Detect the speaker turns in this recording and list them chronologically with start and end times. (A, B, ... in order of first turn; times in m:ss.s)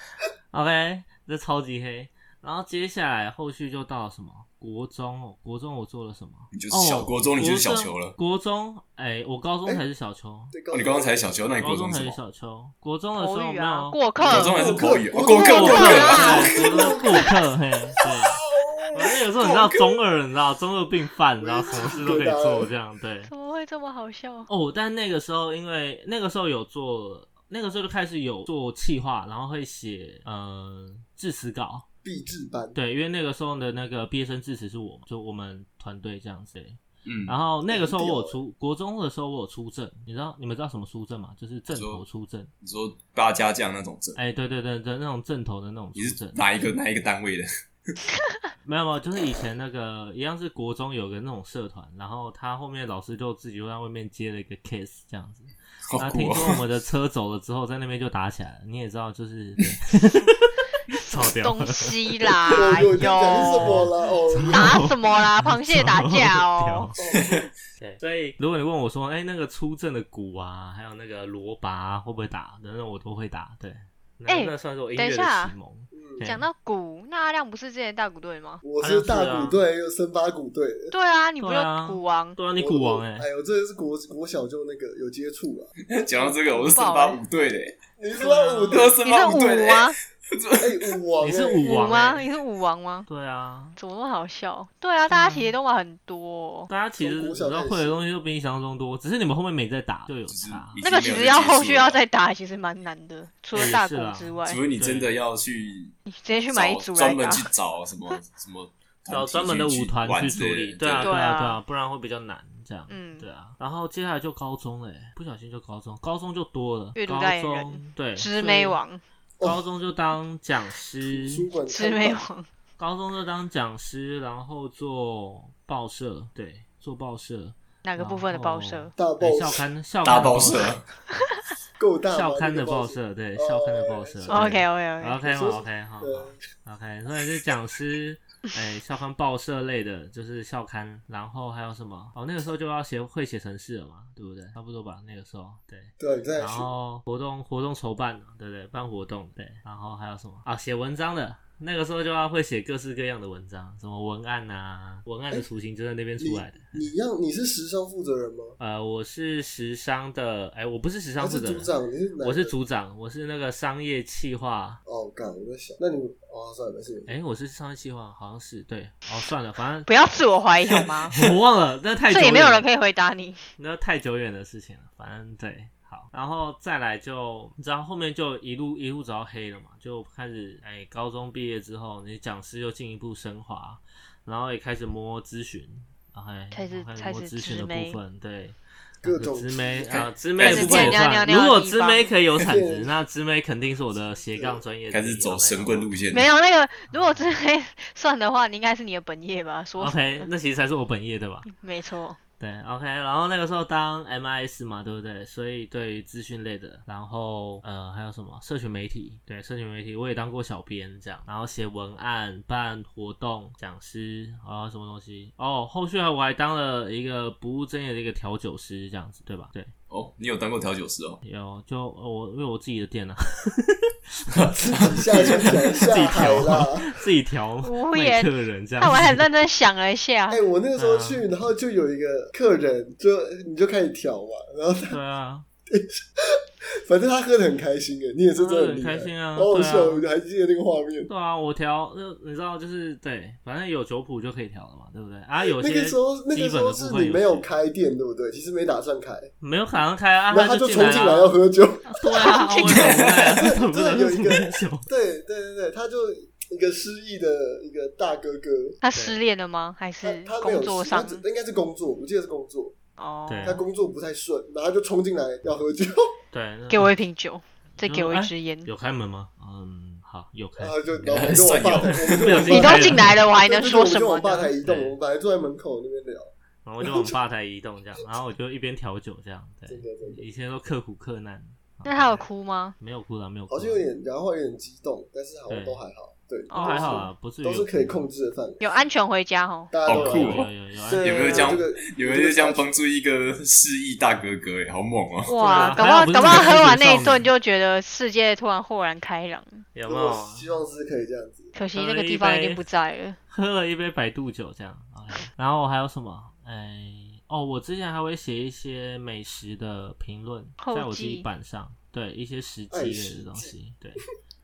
0:00.5-0:10.5 A
0:06.5-0:08.1 B
0:10.5-0:11.3 C
0:10.7-0:12.2 B
0:11.6-0:14.0 A
0:13.2-0:17.3 D
0:14.2-0:17.4 C
0:14.2-0:16.5 B
0:15.5-0:18.4 A
0:18.0-0:19.9 C
0:18.9-0:23.3 A
0:21.4-0:22.7 C
0:23.3-0:24.5 D
0:24.5-0:31.8 A
0:32.0-0:32.8 C
0:32.7-0:42.5 A
0:37.0-0:37.3 B
0:37.7-0:38.4 C
0:41.7-0:42.0 B
0:42.6-0:44.2 B
0:44.2-0:46.4 A
0:46.0-0:47.9 B
0:48.6-1:01.9 A
0:55.9-0:56.6 B
1:01.1-1:03.8 D
1:02.5-1:04.8 C
1:02.5-1:02.8 A
1:03.5-1:07.0 A
1:04.5-1:06.9 D
1:06.9-1:07.5 C
1:07.1-1:07.4 B
1:07.8-1:16.4 A
1:14.3-1:15.5 D
1:15.9-1:16.3 C
1:16.2-1:18.6 D
1:18.6-1:20.9 C
1:18.8-1:19.6 A
1:20.9-1:22.4 D
1:21.4-1:23.2 A
1:22.6-1:25.7 C
1:25.9-1:27.8 B
1:26.2-1:27.2 D
1:28.0-1:29.0 C
1:28.1-1:28.9 A
1:28.7-1:31.0 B
1:29.0-1:29.9 D
1:30.6-1:31.9 C
1:31.2-1:32.2 A
1:31.6-1:33.1 D
1:33.1-1:33.8 A
1:33.8-1:36.7 D
1:35.1-1:35.6 A
1:36.7-1:40.8 A
1:37.0-1:38.0 C
1:40.3-1:42.0 B
1:40.8-1:44.6 D
1:43.5-1:45.1 A
1:44.4-1:45.9 B
1:46.1-1:47.5 D
1:46.5-1:51.1 B
1:49.1-1:58.8 A
1:50.9-1:51.6 D
1:52.9-1:53.3 D
1:57.0-1:59.0 D
1:59.4-2:01.5 A
2:01.0-2:02.2 C
2:01.7-2:02.5 D
2:02.8-2:10.8 A
2:07.8-2:08.9 D
2:09.0-2:09.6 C
2:10.0-2:10.8 B
2:11.8-2:14.6 C
2:12.1-2:36.9 A
2:14.3-2:15.2 D
2:15.2-2:16.4 C
2:26.0-2:26.7 C
2:36.2-2:38.6 C
2:38.6-2:44.8 A
2:41.2-2:42.5 C
2:44.8-2:47.1 C
2:47.1-2:49.9 A
2:49.8-2:51.2 D
2:51.1-2:52.6 A
2:52.1-2:53.4 D
2:53.6-3:15.9 A
3:06.5-3:08.0 D
3:09.0-3:10.1 C
3:09.9-3:11.0 B
3:10.4-3:12.1 D
3:12.4-3:12.9 C
3:14.3-3:14.6 C
3:14.9-3:16.3 B
3:16.1-3:20.3 D
3:16.9-3:17.3 A
3:19.8-3:21.4 A
3:21.4-3:22.2 D
3:22.4-3:39.7 A
3:39.9-3:41.2 B
3:41.2-3:43.9 A
3:44.3-3:45.5 B
3:44.6-3:46.9 C
3:45.1-3:49.2 A
3:47.6-3:50.4 D
3:50.3-3:55.0 C
3:50.8-3:51.2 A
3:54.9-3:55.4 A
3:55.7-4:01.1 C
3:58.4-4:00.0 A
4:01.1-4:07.5 A
4:05.4-4:09.3 C
4:09.4-4:14.9 A
4:10.3-4:12.4 C
4:12.1-4:13.0 D
4:13.0-4:18.8 C
4:18.8-4:21.2 D
4:20.0-4:22.7 C
4:23.0-4:23.6 D
4:23.3-4:23.6 A
4:23.4-4:26.1 C
4:26.3-4:26.9 A
4:26.7-4:28.7 D
4:27.8-4:33.1 A
4:30.6-4:36.3 C
4:31.1-4:32.6 B
4:32.4-4:34.5 D
4:34.6-4:35.0 A
4:36.6-4:42.3 A
4:36.8-4:37.2 C
4:39.7-4:40.2 C
4:41.8-4:42.8 D
4:42.8-4:43.9 A
4:43.5-4:48.6 C
4:45.5-4:45.8 A
4:46.5-4:47.0 D
4:46.5-4:48.1 A
4:48.6-4:49.7 D
4:49.7-4:52.7 C
4:49.8-4:50.5 B
4:49.9-4:51.5 A
4:51.0-4:55.3 B
4:55.3-4:59.6 D
4:55.3-4:55.9 C
4:55.4-4:57.3 A
4:59.7-5:00.5 A
4:59.9-5:01.5 C
5:01.5-5:03.2 D
5:01.7-5:02.6 A
5:03.3-5:14.0 A
5:10.6-5:11.2 D
5:12.7-5:13.5 C